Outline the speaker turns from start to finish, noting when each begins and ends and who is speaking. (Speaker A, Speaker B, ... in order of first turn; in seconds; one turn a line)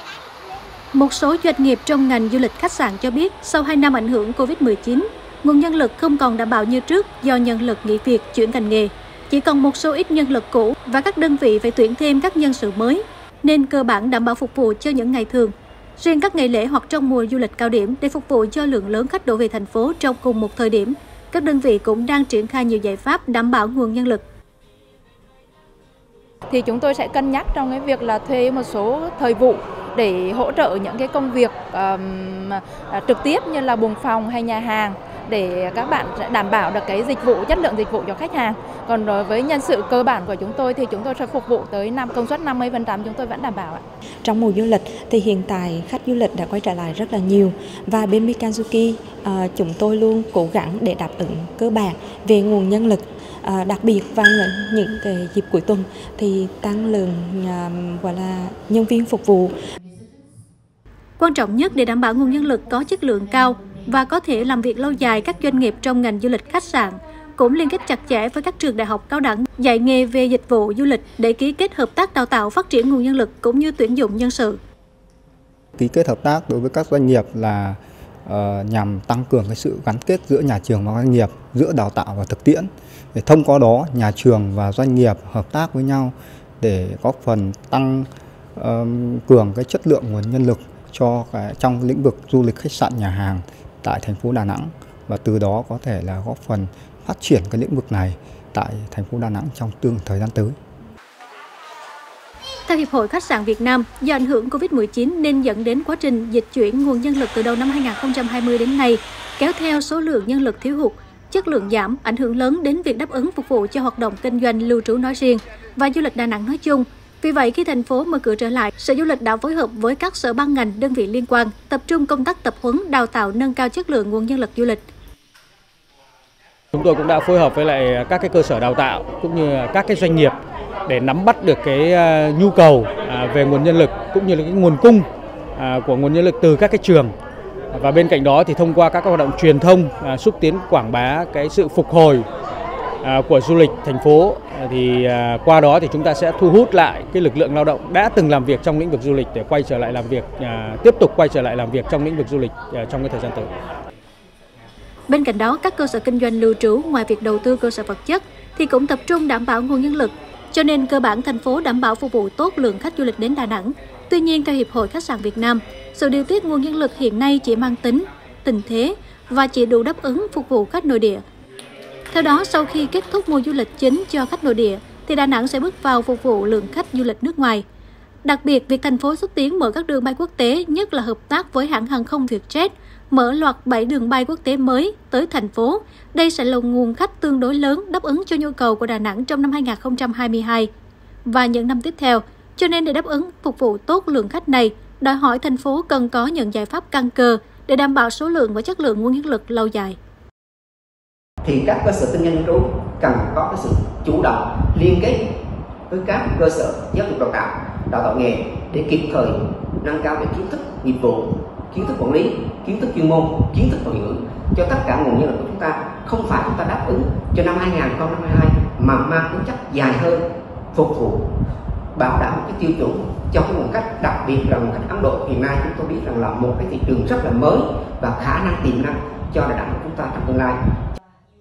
Speaker A: 0.9-24.2
Speaker B: 26.5-43.8
Speaker C: 44.2-59.5
Speaker A: 61.2-74.6
Speaker D: 75.8-100.5
Speaker A: 102.7-124.8
Speaker E: 126.7-135.1
Speaker E: 135.6-137.1
Speaker E: 137.7-142.2
Speaker E: 143.0-153.5
Speaker A: 155.1-171.2
Speaker A: 172.1-177.6
Speaker A: 178.2-190.7
Speaker A: 191.2-200.0
Speaker F: 201.4-205.2
Speaker F: 205.9-221.3
Speaker F: 221.9-230.6